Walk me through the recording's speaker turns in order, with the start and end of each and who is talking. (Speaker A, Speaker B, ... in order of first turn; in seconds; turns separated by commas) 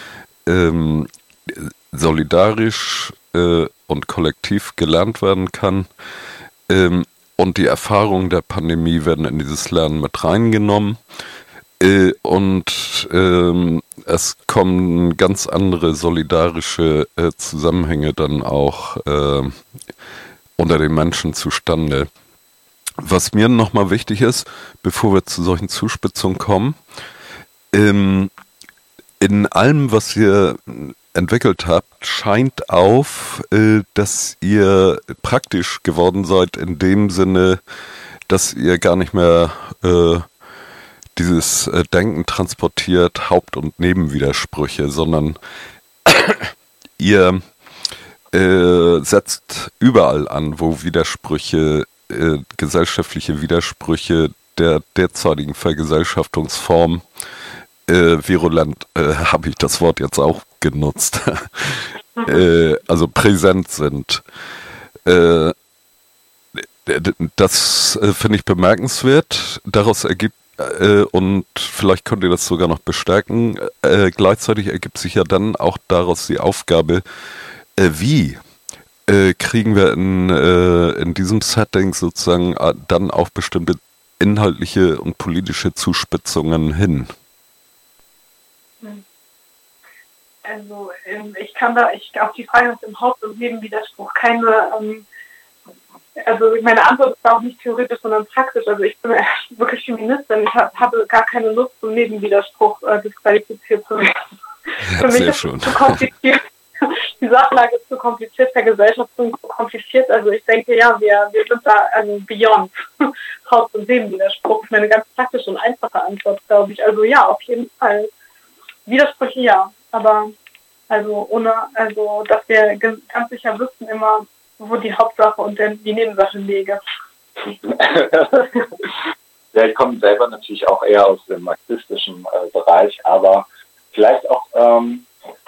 Speaker A: 0.5-5.9, Speaker A: 6.7-11.0, Speaker A: 11.8-19.6, Speaker A: 20.6-22.1, Speaker A: 23.0-26.8, Speaker A: 27.7-28.3, Speaker A: 29.2-37.6, Speaker A: 38.3-40.3, Speaker A: 41.2-45.4, Speaker A: 46.1-47.4, Speaker A: 48.3-57.0, Speaker A: 57.9-64.2, Speaker B: 62.2-62.4, Speaker A: 65.0-65.6, Speaker A: 66.5-77.0, Speaker A: 77.8-78.4, Speaker A: 79.1-87.1, Speaker B: 90.5-95.0, Speaker B: 96.2-104.2, Speaker B: 104.8-118.1, Speaker A: 104.9-106.1, Speaker B: 118.9-120.3, Speaker B: 120.9-126.8, Speaker C: 127.6-128.6, Speaker C: 129.5-135.1